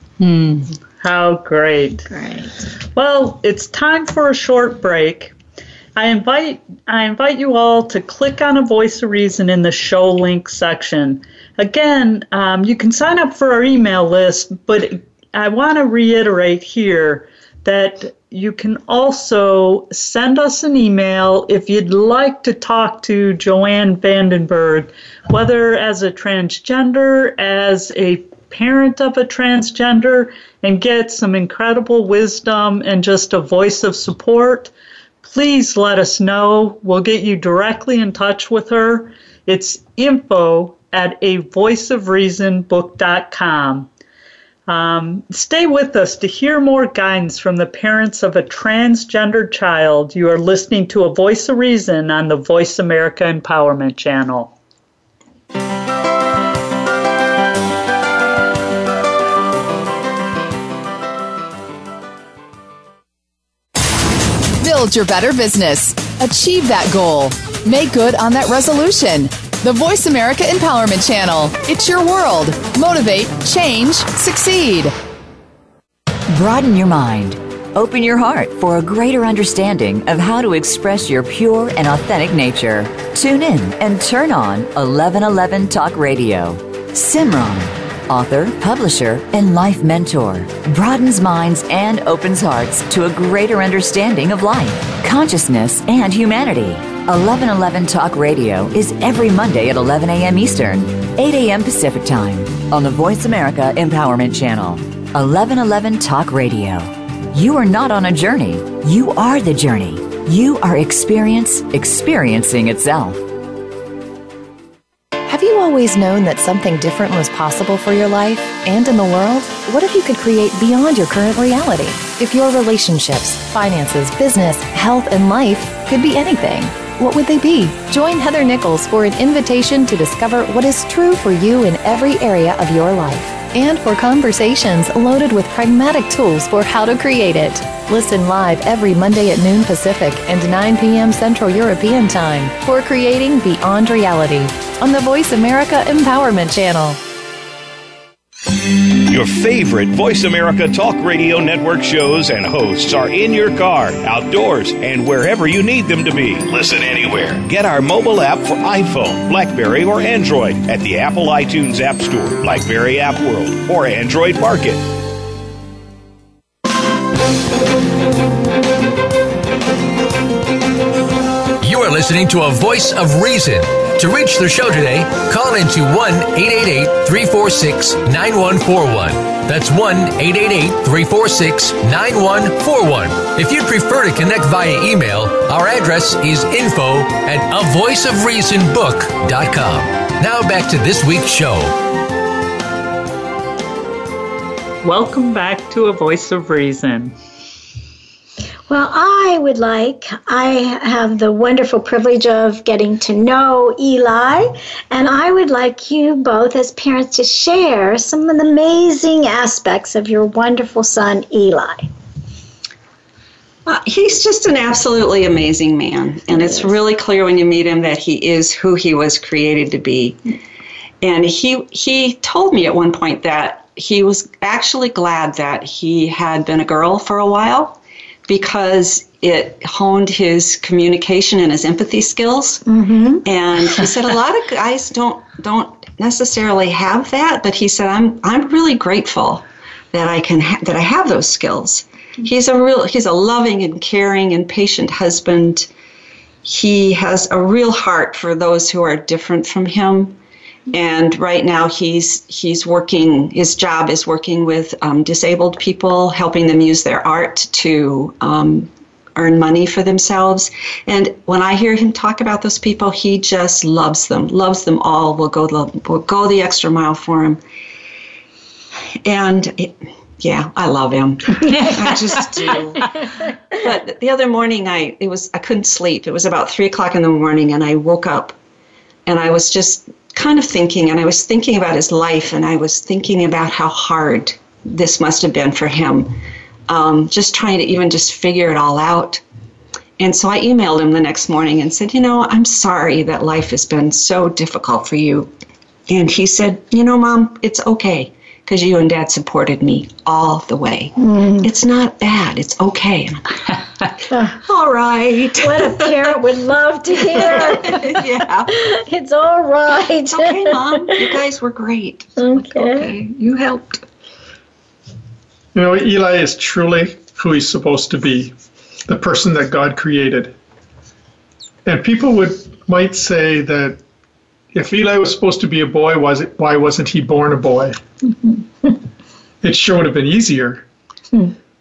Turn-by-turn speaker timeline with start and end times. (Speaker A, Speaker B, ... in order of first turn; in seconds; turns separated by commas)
Speaker A: 0.2-2.1, Speaker B: 2.1-2.5, Speaker A: 2.9-5.3, Speaker A: 5.9-34.7, Speaker A: 35.2-43.9, Speaker A: 44.7-54.5, Speaker C: 64.6-74.9, Speaker D: 76.3-113.3, Speaker E: 115.2-147.0, Speaker F: 149.1-164.8, Speaker G: 171.6-191.8, Speaker A: 194.8-197.1, Speaker B: 198.7-211.9, Speaker H: 213.7-220.2, Speaker H: 221.0-232.6, Speaker B: 232.7-233.2, Speaker H: 233.2-245.7, Speaker H: 246.4-250.2, Speaker H: 250.7-267.4, Speaker H: 269.0-278.4, Speaker A: 271.5-271.9, Speaker H: 279.1-289.2, Speaker H: 290.0-295.3, Speaker H: 295.9-303.3, Speaker B: 301.0-301.5, Speaker B: 304.1-304.4, Speaker H: 304.3-305.9, Speaker B: 305.4-308.0, Speaker H: 307.1-308.5, Speaker B: 308.5-310.6, Speaker H: 310.1-313.8, Speaker B: 312.2-312.9, Speaker I: 315.5-318.3, Speaker I: 318.9-320.3, Speaker I: 321.6-323.8, Speaker I: 324.5-327.8, Speaker I: 329.4-330.6